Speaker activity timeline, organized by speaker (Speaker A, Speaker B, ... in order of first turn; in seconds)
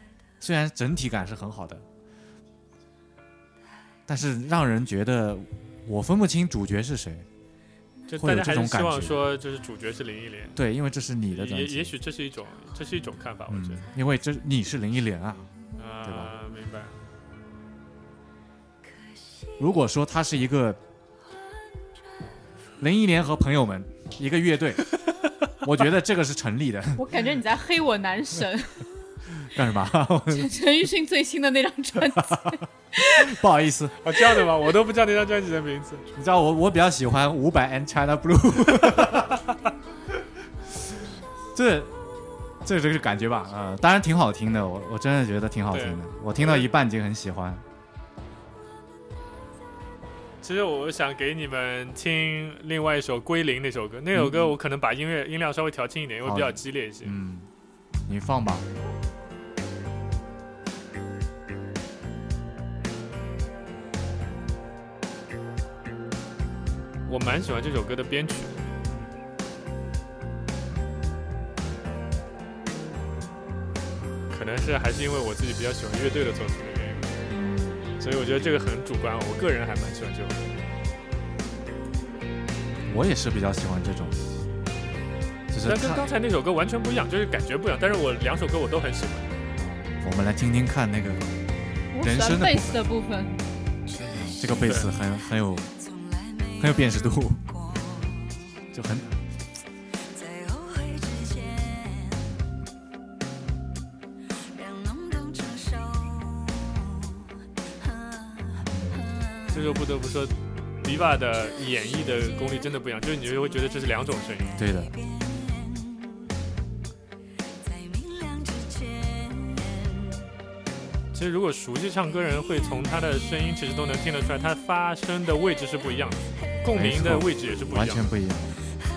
Speaker A: 0.4-1.9, 4.1-7.3, 8.2-9.2, 10.6-11.9, 13.5-16.3, 19.6-20.8, 22.8-24.9, 25.6-27.2, 29.3-30.6, 32.0-32.6, 33.1-34.0, 36.1-39.5, 40.7-42.0, 42.6-47.6, 54.1-54.6, 56.2-57.5, 58.1-58.7, 77.3-77.8, 82.9-84.3, 85.5-86.0, 89.6-91.4, 92.0-92.8, 94.0-95.7, 96.6-97.5, 98.7-99.2, 108.5-109.1, 114.5-115.0, 126.8-128.6
Speaker B: 8.1-10.6, 11.3-13.9, 15.8-17.0, 34.0-36.1, 45.7-46.7, 50.4-57.2, 67.1-68.7, 74.3-77.2, 78.0-80.5, 85.7-89.3, 94.6-94.9, 109.5-114.6, 121.1-128.1
Speaker C: 27.0-28.9, 30.3-33.4, 91.9-93.4
Speaker D: 100.2-101.5, 104.6-106.8, 118.0-119.2